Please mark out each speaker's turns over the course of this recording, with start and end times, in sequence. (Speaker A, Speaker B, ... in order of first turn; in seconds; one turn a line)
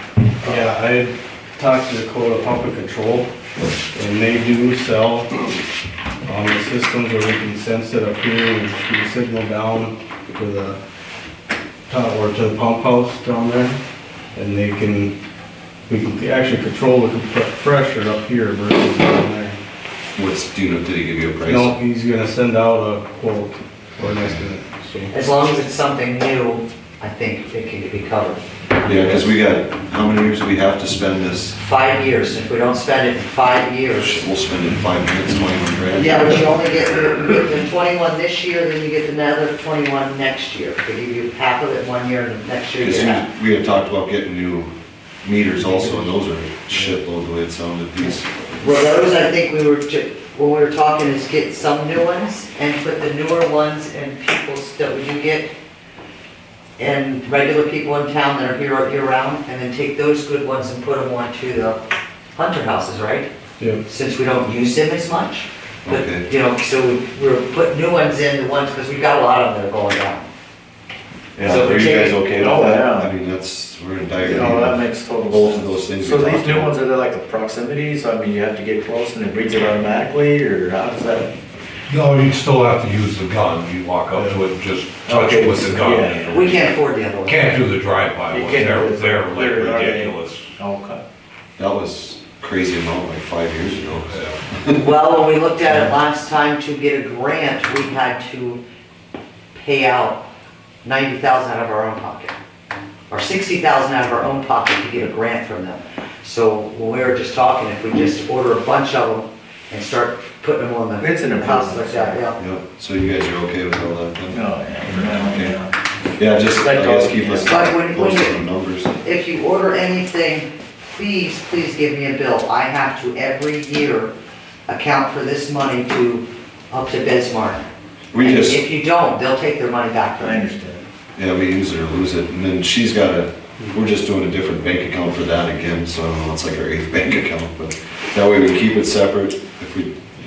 Speaker A: 0.4-3.3
Speaker A: 3.9-5.3
Speaker A: 6.2-10.8
Speaker A: 11.9-13.8
Speaker A: 14.3-15.2
Speaker A: 15.9-19.6
Speaker B: 20.1-21.8
Speaker A: 21.5-25.1
Speaker C: 25.1-29.2
Speaker B: 28.8-31.6
Speaker C: 31.6-34.3
Speaker B: 33.9-36.4
Speaker C: 35.9-43.3
Speaker B: 42.8-44.7
Speaker B: 45.2-48.3
Speaker C: 48.6-55.5
Speaker C: 56.8-61.8
Speaker C: 62.4-63.3
Speaker C: 63.9-70.3
Speaker B: 65.9-66.2
Speaker B: 71.4-76.7
Speaker C: 71.4-72.2
Speaker D: 71.5-73.1
Speaker D: 74.2-81.3
Speaker E: 81.9-86.7
Speaker D: 84.1-84.5
Speaker D: 85.1-86.6
Speaker C: 86.3-87.6
Speaker E: 87.2-90.5
Speaker D: 88.3-91.0
Speaker B: 91.6-94.9
Speaker E: 94.1-94.4
Speaker C: 94.8-98.6
Speaker C: 99.5-100.2
Speaker C: 100.8-102.4
Speaker C: 103.1-112.4
Speaker D: 111.0-112.2
Speaker B: 112.4-115.6
Speaker D: 114.3-115.7
Speaker B: 116.2-119.0
Speaker D: 116.5-117.6
Speaker C: 117.5-124.1
Speaker C: 124.7-130.5
Speaker B: 128.1-128.7
Speaker D: 130.2-130.8
Speaker B: 131.2-139.9